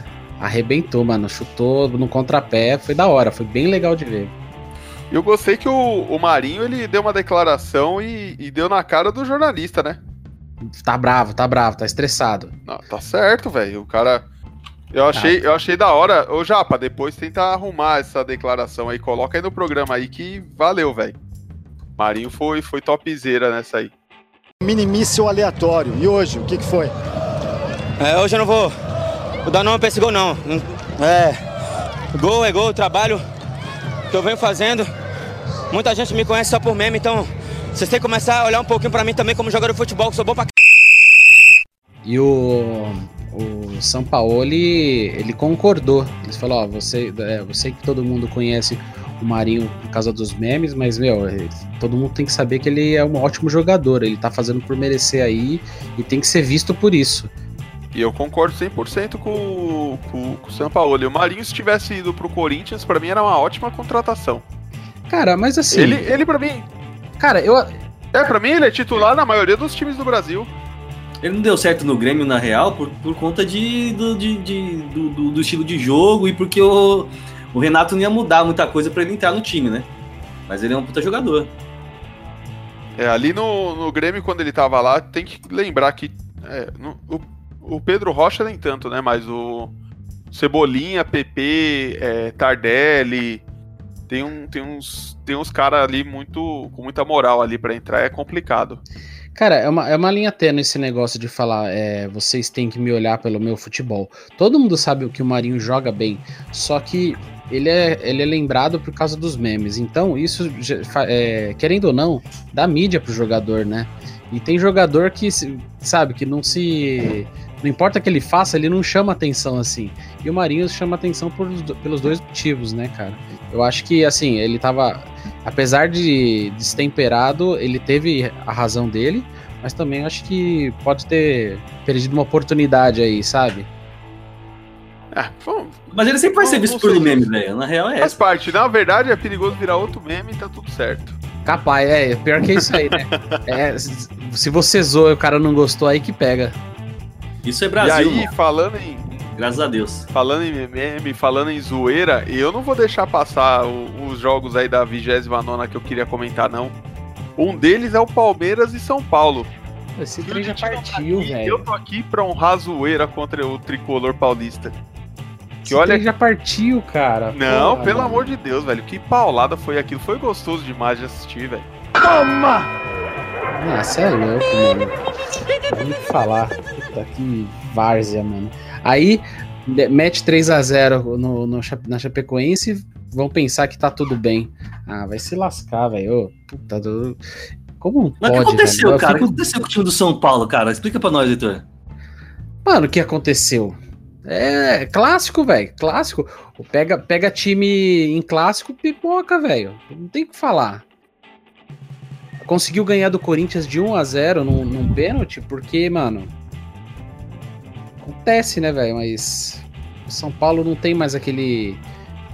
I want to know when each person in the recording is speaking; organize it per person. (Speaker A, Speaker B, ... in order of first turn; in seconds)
Speaker A: 0.4-4.3, 10.6-12.6, 42.0-57.3, 65.1-66.1, 67.2-67.8, 99.4-133.7, 141.4-146.6, 160.0-161.7, 165.7-168.4, 172.0-172.7, 173.6-175.0, 175.7-187.2, 187.8-189.4, 192.7-200.8, 202.4-206.3, 208.0-211.8
Speaker B: 5.1-10.0, 12.7-14.2, 14.9-21.2, 22.0-23.9, 57.9-64.4, 65.7-66.7, 68.1-70.5, 83.0-89.7, 90.3-93.4, 94.1-98.8, 135.1-135.8, 136.4-137.3, 138.0-141.2, 142.4-143.4, 147.8-149.2, 150.1-156.8, 157.4-159.5, 160.2-164.8, 165.7-166.1, 167.3-171.7
Speaker C: 24.6-26.9
Speaker D: 28.0-28.7, 29.4-31.4, 32.1-33.2, 34.1-34.9, 35.7-40.5
Speaker E: 71.2-79.9, 80.5-81.5, 135.9-138.2, 147.4-148.3, 149.4-150.1, 188.2-191.6